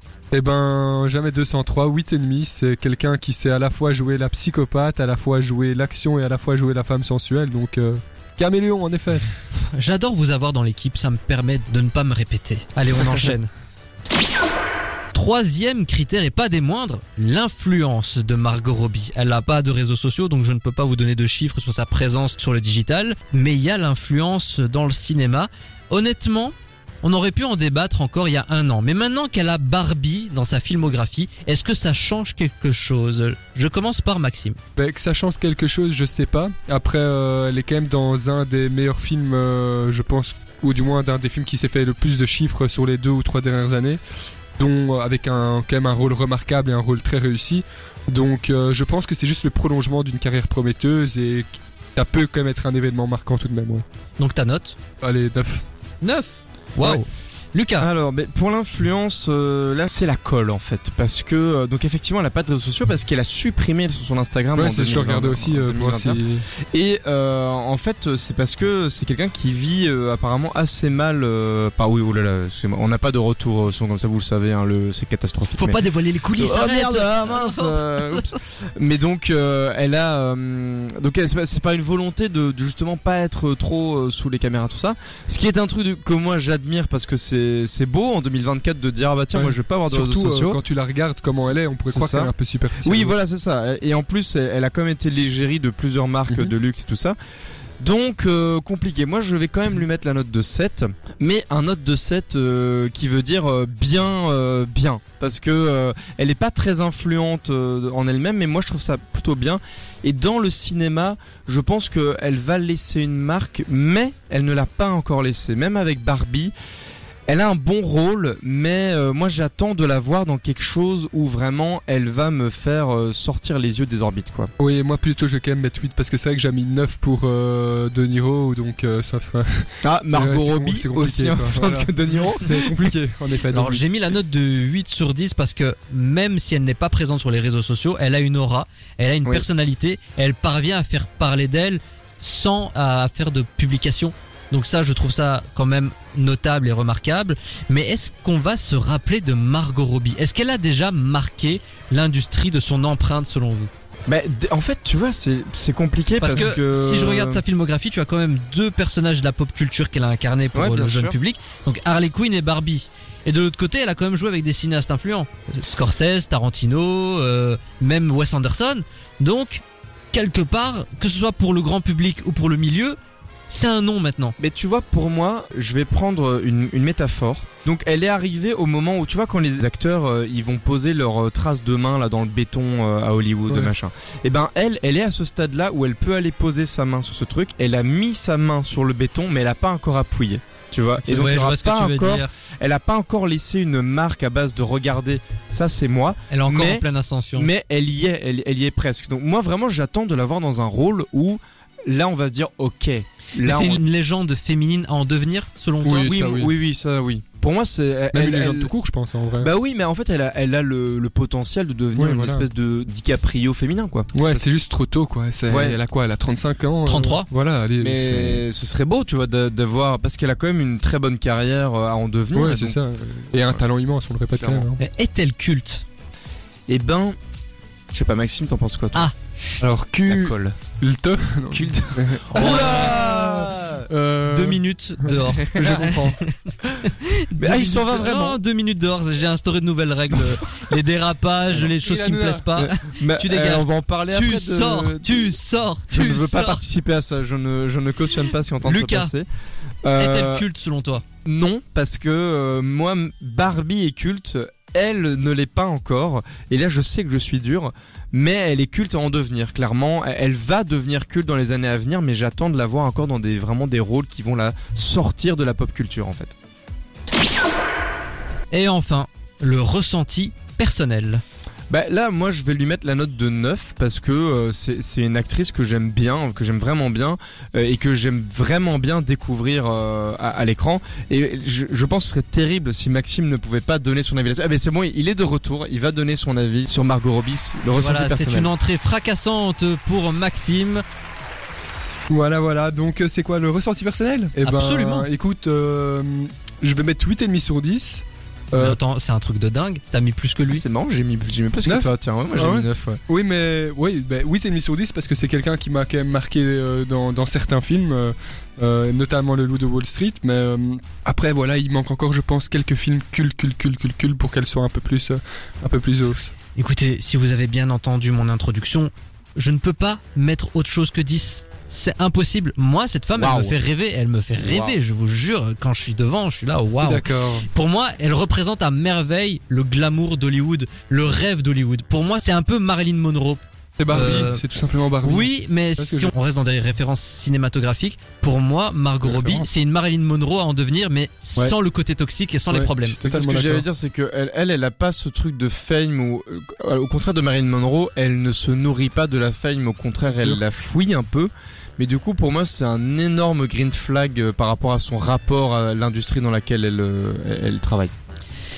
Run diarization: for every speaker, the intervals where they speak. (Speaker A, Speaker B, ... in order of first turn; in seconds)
Speaker A: 0.3-9.3, 34.8-44.0, 44.6-53.8, 55.0-55.6, 64.5-66.4, 89.3-93.1, 124.6-133.8, 205.8-206.5, 208.1-209.5, 211.9-212.4, 214.1-218.4, 222.3-224.8, 229.6-236.2, 237.3-237.8, 241.6-242.5, 292.1-298.8, 301.6-316.3, 326.8-327.5, 333.8-336.1, 339.0-339.4, 342.5-343.6, 350.1-350.4
Speaker B: 9.5-13.5, 15.1-34.6, 54.2-54.8, 56.0-57.9, 75.5-78.3, 133.5-153.7, 156.2-173.0, 173.5-174.3, 191.1-192.3, 196.3-197.5, 203.4-206.1, 216.8-217.3, 224.8-225.8, 232.3-232.9, 234.2-246.6, 248.6-249.1, 249.9-251.0, 268.5-271.2, 287.7-290.8, 294.4-295.1, 298.5-300.6, 316.6-334.4, 335.0-343.0
Speaker C: 57.8-66.2, 66.7-75.8, 76.3-90.6, 91.4-97.2, 97.8-116.5, 117.3-124.5, 129.8-132.9, 154.1-157.4, 160.5-161.2, 174.4-203.8, 205.9-208.7, 209.4-214.4, 215.5-215.8, 217.8-222.8, 224.3-224.7, 226.7-227.2, 227.9-229.1, 230.1-230.6, 231.5-233.8, 235.1-236.0, 237.3-238.4, 242.5-245.4, 245.9-249.2, 249.8-250.4, 251.2-266.3, 271.7-288.5, 300.5-303.0, 323.1-323.6, 324.4-324.8, 343.0-357.9